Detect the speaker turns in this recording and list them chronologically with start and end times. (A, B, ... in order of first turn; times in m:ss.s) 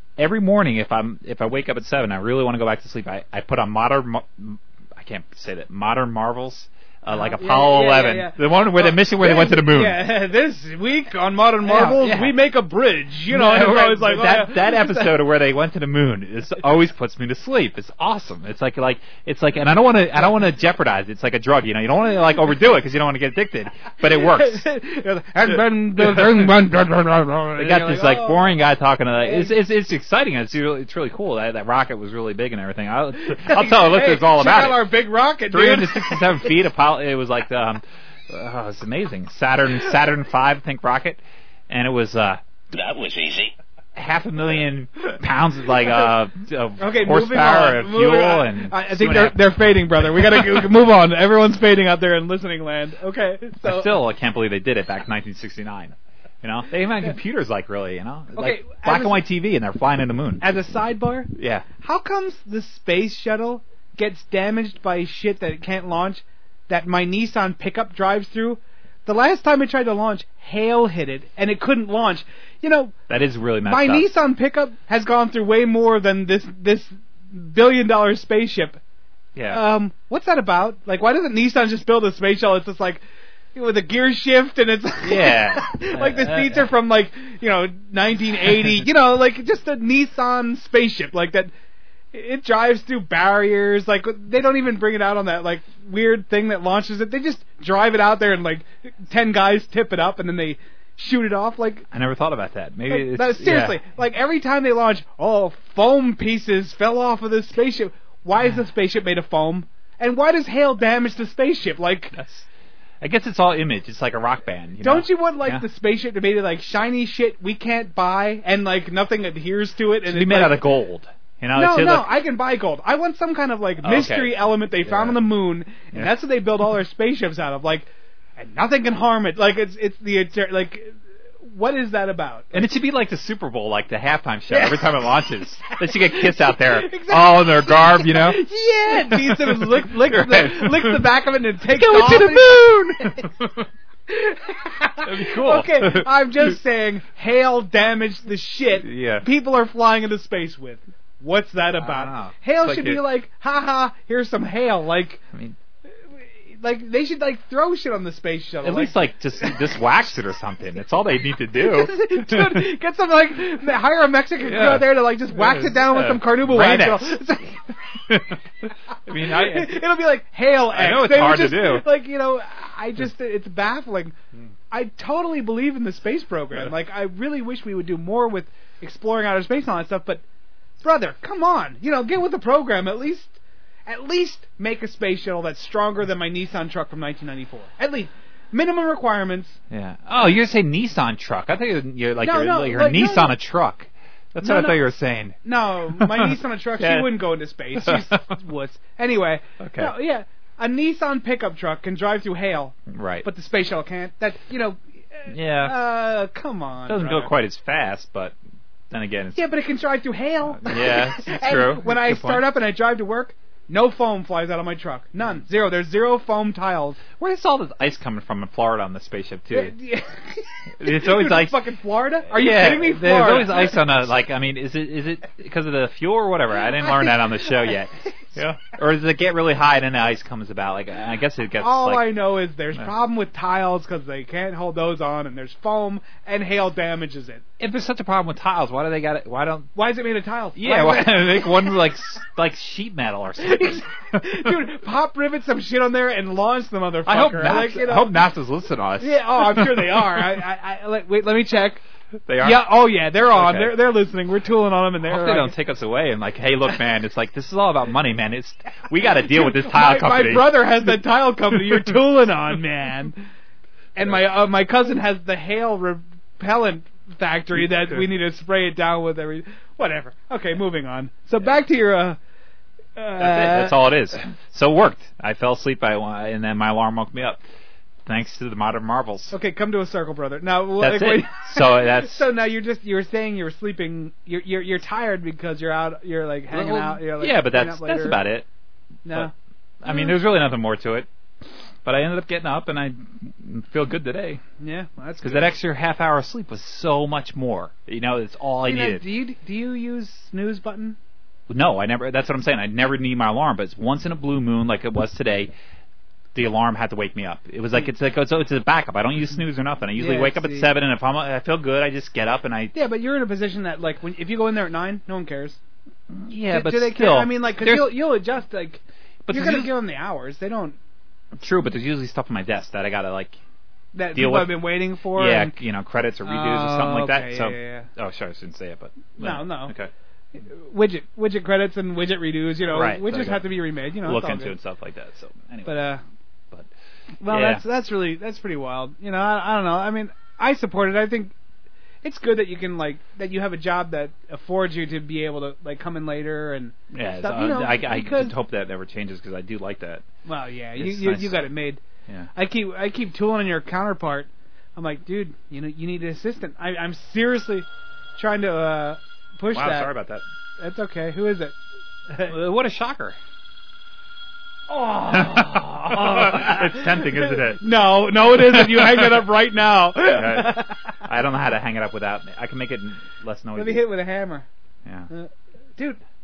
0:00.2-0:10.0 A
0:07.1-0:15.2 B
0:11.6-0:12.3 A
0:13.3-0:24.6 A
0:24.1-0:28.5 B
0:25.5-0:26.8 A
0:27.5-0:34.9 A
0:29.2-0:29.5 B
0:33.2-0:36.5 B
0:35.5-0:42.4 A
0:43.9-0:49.4 A
0:46.8-0:54.0 B
0:50.2-0:50.4 A
0:53.6-1:00.5 A
0:58.3-0:59.2 B
1:00.4-1:12.9 B
1:01.3-1:01.7 A
1:13.1-1:14.1 A
1:13.6-1:18.8 B
1:19.3-1:19.6 A
1:19.5-1:23.0 B
1:23.5-1:31.5 B
1:25.0-1:26.7 A
1:32.1-1:41.8 B
1:41.9-1:43.8 A
1:42.9-1:52.2 B
1:52.1-1:52.4 A
1:53.0-1:55.6 A
1:54.8-2:00.6 B
2:00.0-2:02.1 A
2:01.5-2:12.7 B
2:03.8-2:05.2 A
2:12.5-2:21.0 A
2:14.5-2:15.1 B
2:15.7-2:23.3 B
2:21.7-2:23.7 A
2:24.1-2:35.2 B
2:25.0-2:26.5 A
2:28.7-2:29.2 A
2:31.8-2:33.0 A
2:36.1-2:39.7 B
2:38.6-2:42.7 A
2:41.6-2:47.6 B
2:44.4-2:47.2 A
2:48.1-2:48.4 A
2:49.0-2:49.8 A
2:49.2-2:54.1 B
2:50.7-2:51.8 A
2:54.7-3:00.2 B
3:00.8-3:09.6 B
3:09.7-3:15.4 A
3:12.2-3:13.3 B
3:14.4-3:14.8 B
3:15.4-3:27.3 B
3:15.9-3:18.1 A
3:19.6-3:19.9 A
3:22.9-3:23.2 A
3:25.3-3:25.7 A
3:26.8-3:28.3 A
3:28.9-3:29.4 A
3:29.3-3:37.0 B
3:30.5-3:32.5 A
3:37.2-3:39.7 A
3:39.5-3:43.8 B
3:40.8-3:41.6 A
3:42.3-3:52.1 A
3:46.8-3:47.2 B
3:51.6-3:57.4 B
3:57.6-3:59.7 A
3:59.7-4:01.8 B
4:00.5-4:04.6 A
4:03.4-4:08.2 B
4:07.0-4:10.2 A
4:09.0-4:11.8 B
4:12.3-4:12.7 A
4:12.4-4:15.5 B
4:13.3-4:13.7 A
4:15.0-4:20.9 A
4:19.3-4:23.2 B
4:21.5-4:21.9 A
4:24.0-4:32.2 B
4:27.6-4:28.0 A
4:33.0-4:33.8 B
4:33.2-4:37.4 A
4:38.0-4:39.3 A
4:39.3-4:48.2 B
4:40.8-4:42.2 A
4:46.5-4:48.4 A
4:49.0-4:49.3 B
4:49.8-4:51.1 A
4:49.9-4:50.2 B
4:51.8-4:54.4 A
4:54.6-4:55.5 B
4:55.2-4:59.0 A
4:58.6-5:01.0 B
5:01.5-5:05.5 A
5:06.3-5:12.7 A
5:10.0-5:10.7 B
5:12.7-5:15.6 B
5:16.1-5:18.0 A
5:16.5-5:20.8 B
5:19.2-5:19.7 A
5:21.3-5:23.4 A
5:23.9-5:25.5 B
5:24.1-5:29.9 A
5:26.2-5:27.9 B
5:29.2-5:29.7 B
5:30.4-5:34.5 B
5:32.7-5:33.5 A
5:34.0-5:35.7 A
5:35.6-5:36.0 B
5:37.2-5:41.3 B
5:37.3-5:37.6 A
5:42.0-5:48.3 B
5:46.9-5:50.0 A
5:50.2-5:51.8 B
5:50.8-5:51.5 A
5:52.3-5:57.6 B
5:58.2-5:59.9 B
5:59.5-6:00.2 A
6:00.6-6:01.5 B
6:02.3-6:03.2 A
6:04.7-6:11.0 B
6:05.1-6:07.6 A
6:08.3-6:09.2 A
6:10.0-6:13.8 A
6:13.5-6:14.4 B
6:15.1-6:16.0 B